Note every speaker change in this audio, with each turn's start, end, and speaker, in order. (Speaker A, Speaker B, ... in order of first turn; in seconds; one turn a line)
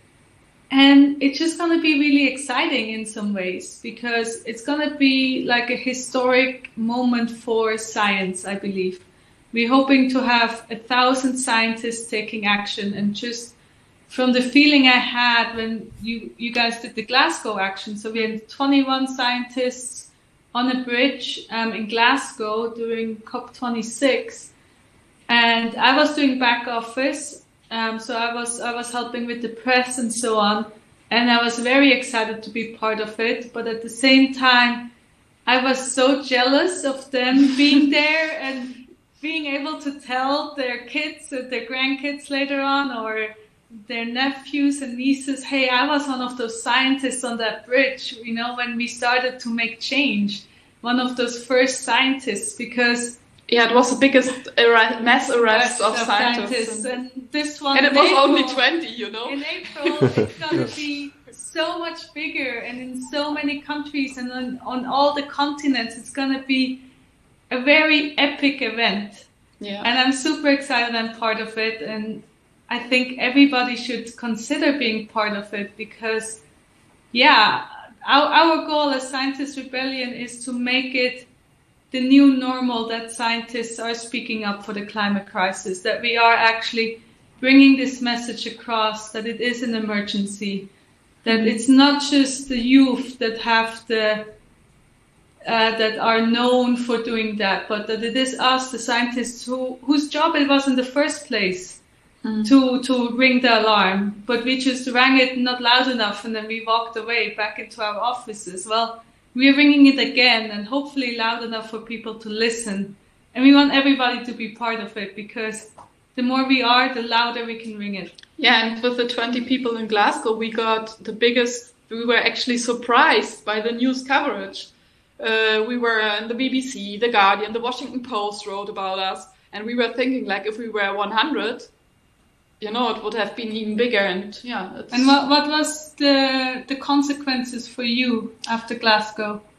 Speaker A: 0.7-13.5
Speaker A: 14.1-24.5
Speaker A: 25.3-34.9
Speaker A: 35.5-53.2
Speaker B: 53.5-56.9
Speaker A: 55.5-58.6
Speaker B: 57.7-60.3
Speaker A: 59.3-66.8
Speaker A: 67.5-69.3
Speaker B: 69.6-69.9
Speaker A: 69.8-76.4
Speaker A: 77.1-81.3
Speaker A: 81.9-90.7
Speaker A: 91.2-94.3
Speaker B: 91.3-91.6
Speaker A: 95.4-101.8
Speaker B: 102.2-102.5
Speaker A: 102.4-118.1
Speaker B: 118.4-131.7
Speaker B: 132.6-135.2
Speaker A: 134.9-139.4